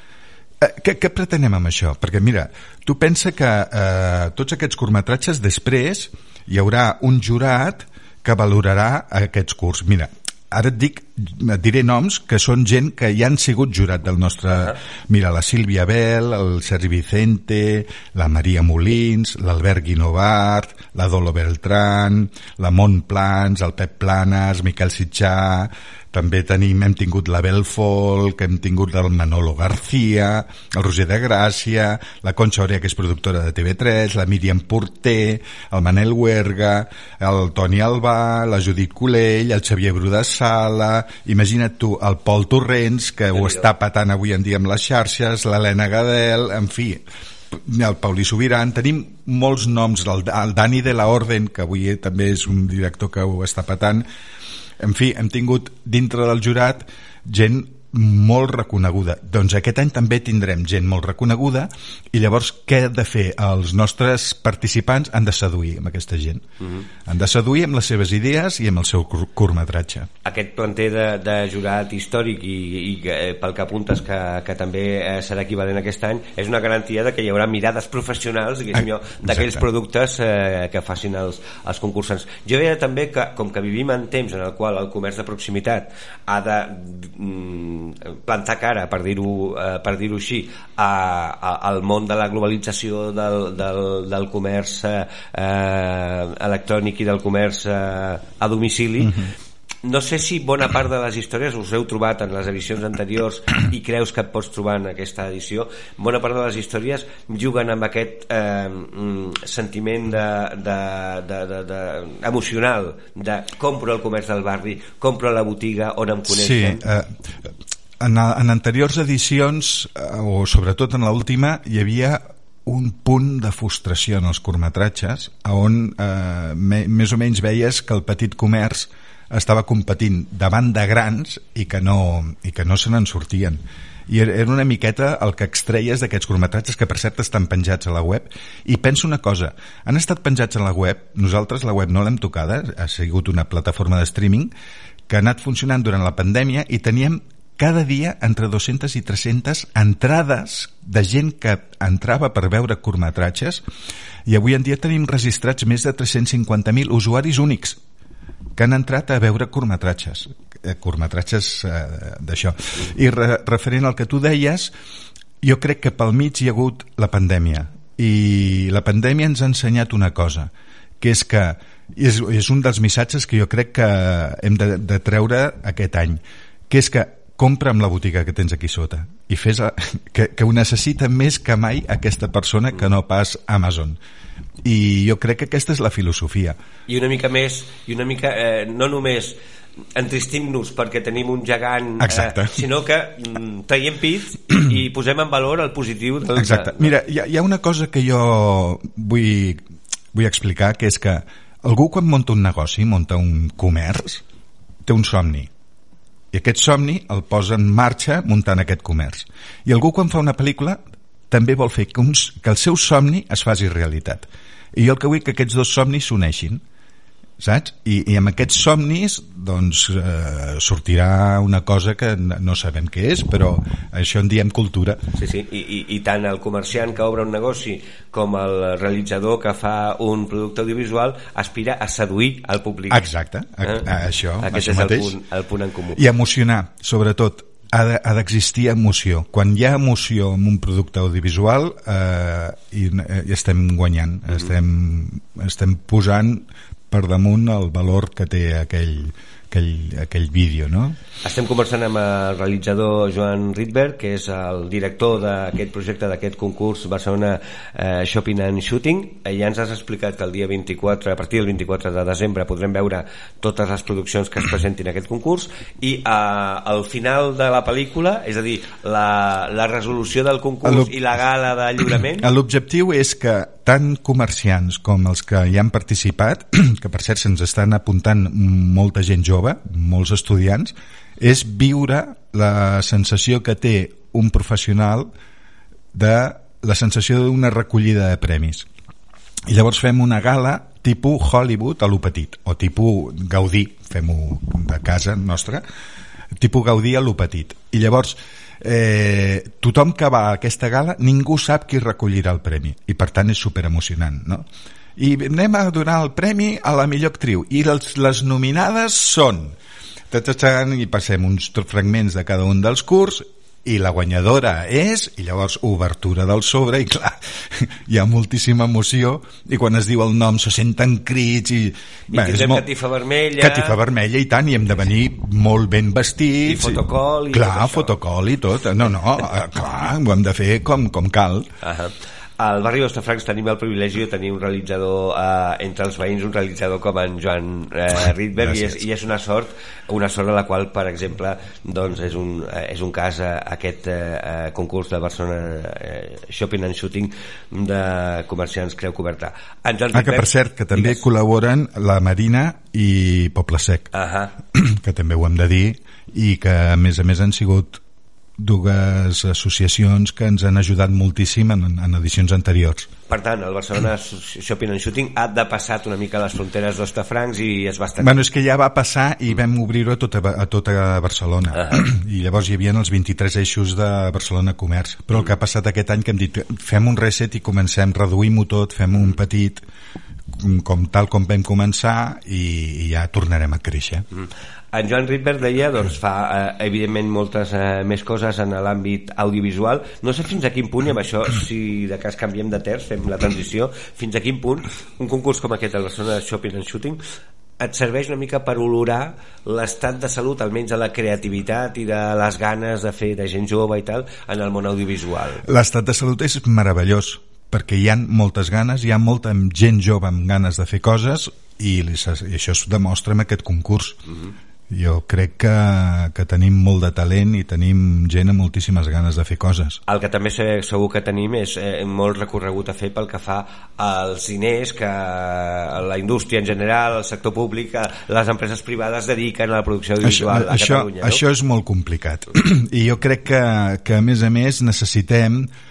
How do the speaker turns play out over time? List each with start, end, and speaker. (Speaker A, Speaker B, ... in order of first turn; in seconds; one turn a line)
Speaker A: 0.6-54.0
Speaker A: 54.8-66.4
Speaker A: 67.0-70.1
Speaker B: 70.2-99.3
Speaker A: 79.2-79.6
Speaker B: 99.8-116.8
Speaker A: 116.3-144.5
Speaker A: 145.1-153.6
Speaker A: 154.2-157.8
Speaker A: 158.6-164.7
Speaker A: 165.4-184.0
Speaker A: 184.6-186.6
Speaker B: 186.9-189.4
Speaker B: 189.9-196.9
Speaker A: 192.0-192.6
Speaker A: 196.3-199.6
Speaker A: 200.1-204.2
Speaker A: 204.8-205.5
Speaker A: 206.3-216.6
Speaker A: 217.4-225.0
Speaker B: 225.1-233.1
Speaker A: 232.9-235.2
Speaker B: 234.4-236.0
Speaker A: 235.9-251.0
Speaker B: 251.2-272.3
Speaker A: 270.6-270.9
Speaker A: 272.2-285.1
Speaker A: 285.9-288.6
Speaker A: 289.5-295.6
Speaker A: 296.4-304.4
Speaker A: 305.0-309.6
Speaker A: 310.1-322.7
Speaker B: 322.1-323.8
Speaker A: 323.4-331.5
Speaker B: 326.4-327.9
Speaker B: 331.6-351.0
Speaker A: 338.4-338.8
Speaker A: 349.9-353.9
Speaker B: 353.9-354.3
Speaker A: 354.5-357.8
Speaker A: 358.4-362.9
Speaker B: 363.1-368.2
Speaker A: 368.0-379.6
Speaker B: 371.6-371.8
Speaker A: 380.4-384.0
Speaker B: 384.1-397.0
Speaker B: 397.6-405.4
Speaker A: 405.4-414.0
Speaker A: 414.7-419.8
Speaker B: 419.9-431.2
Speaker A: 430.0-435.5